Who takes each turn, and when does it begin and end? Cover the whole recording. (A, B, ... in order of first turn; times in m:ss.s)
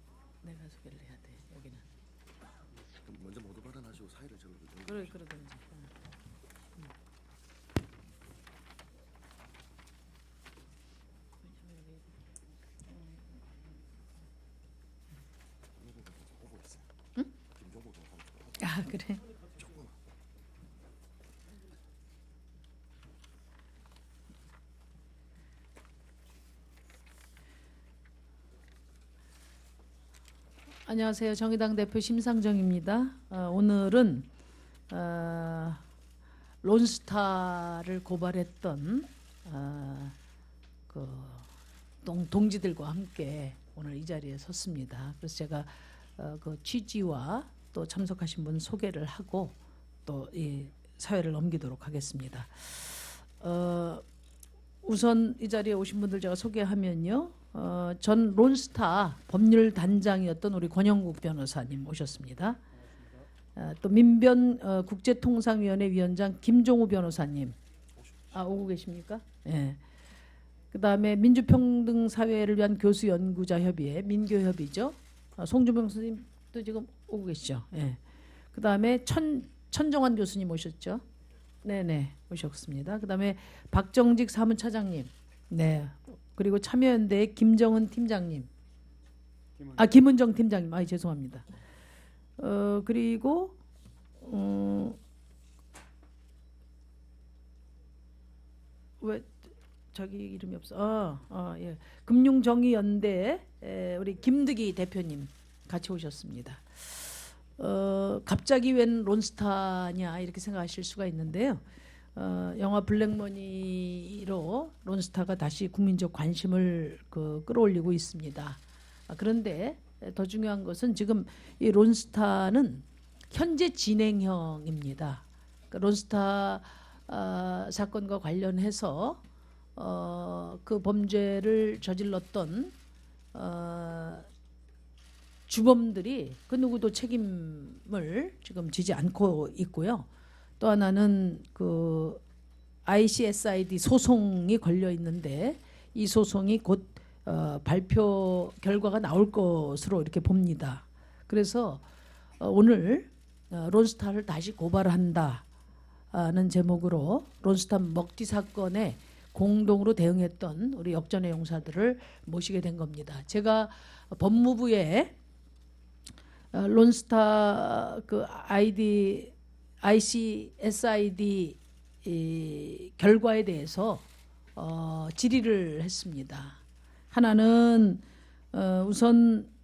0:00.4-0:01.8 A
0:03.0-0:05.2 B
0:04.9-0:05.9 A
0:11.6-0:12.0 A
0:15.8-0:16.9 B
0:17.5-0:18.6 B
0:18.6-0:19.2 A
0:19.6-0:19.9 B
0:30.8-0:34.3 A
0:34.9-0:35.8 A
0:36.6-0:40.2 A
0:40.9-0:41.5 A
0:42.0-0:54.0 A
0:54.8-1:02.6 A
1:03.6-1:07.6 A
1:08.3-1:09.8 A
1:10.7-1:18.0 A
1:18.5-1:21.0 A
1:21.6-1:28.5 A
1:29.8-1:31.4 A
1:32.4-1:33.6 A
1:34.2-1:35.0 A
1:39.0-2:09.2 A
2:09.8-2:12.8 A
2:13.3-2:14.3 A
2:15.5-2:20.1 A
2:20.6-2:22.2 A
2:22.8-2:31.8 A
2:32.4-2:35.4 A
2:36.1-2:45.1 A
2:46.5-2:54.0 A
2:54.6-2:56.6 A
2:57.1-2:59.5 A